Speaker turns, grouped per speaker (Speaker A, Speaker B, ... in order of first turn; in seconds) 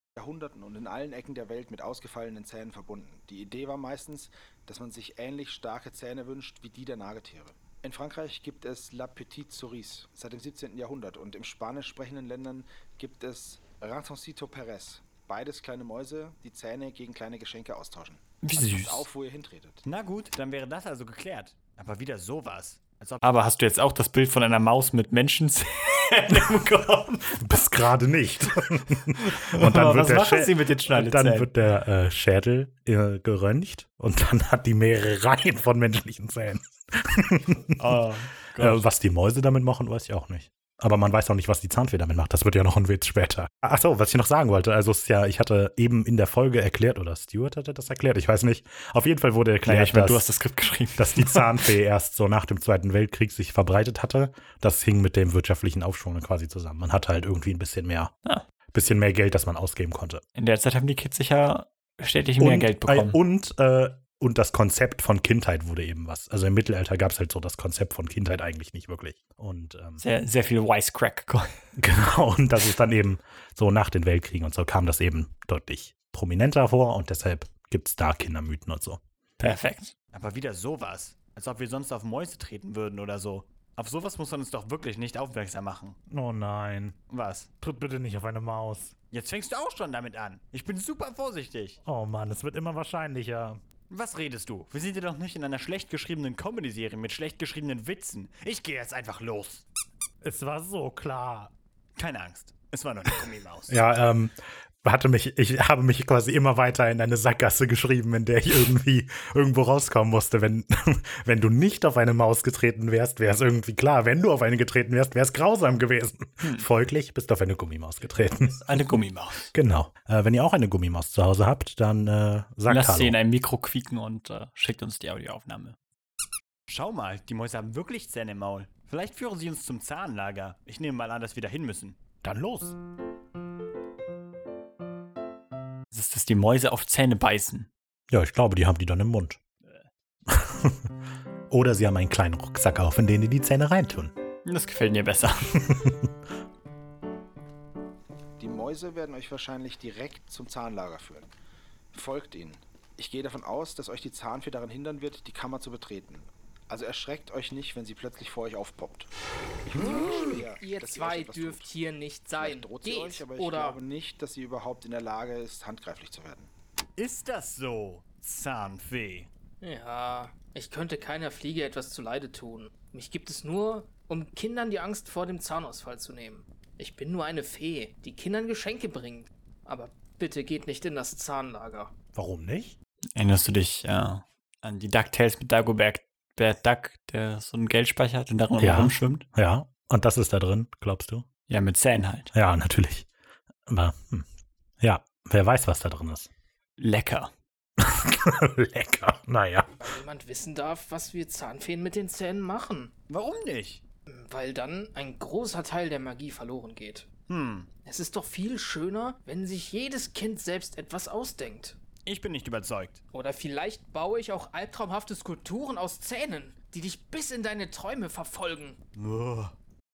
Speaker A: 0.2-19.8, 148.4-151.3, 151.9-159.1, 159.7-161.7, 162.4-166.5
Speaker B: 18.4-19.1, 23.2-27.4, 29.2-31.5, 37.8-38.9, 49.6-51.7, 60.4-63.2, 70.0-71.5, 79.4-79.9, 118.5-119.5, 122.7-125.8, 135.9-137.7, 144.4-145.6, 183.2-189.2, 191.5-192.3, 196.8-197.3
Speaker C: 19.8-23.2, 80.1-86.0, 87.1-87.5, 89.1-91.8, 93.9-99.7, 102.0-103.8, 126.7-132.0, 159.8-160.1, 167.0-169.3, 203.1-203.8, 207.3-207.7, 212.1-213.0, 219.0-219.5
Speaker D: 27.4-38.0, 38.6-50.2, 51.0-58.1, 58.7-60.2, 62.4-70.0, 71.8-79.0, 86.1-87.0, 87.6-88.9, 91.8-93.6, 100.2-101.5, 103.7-118.7, 119.5-123.2, 132.2-132.8, 138.1-139.4, 140.3-140.8, 141.5-144.1, 145.7-146.0, 182.2-182.8, 188.6-191.3, 192.3-193.1, 193.7-194.3, 194.8-196.3, 197.8-199.8
Speaker E: 159.8-163.8, 169.6-181.9, 199.8-202.9, 204.1-207.1, 207.8-211.8, 213.1-218.8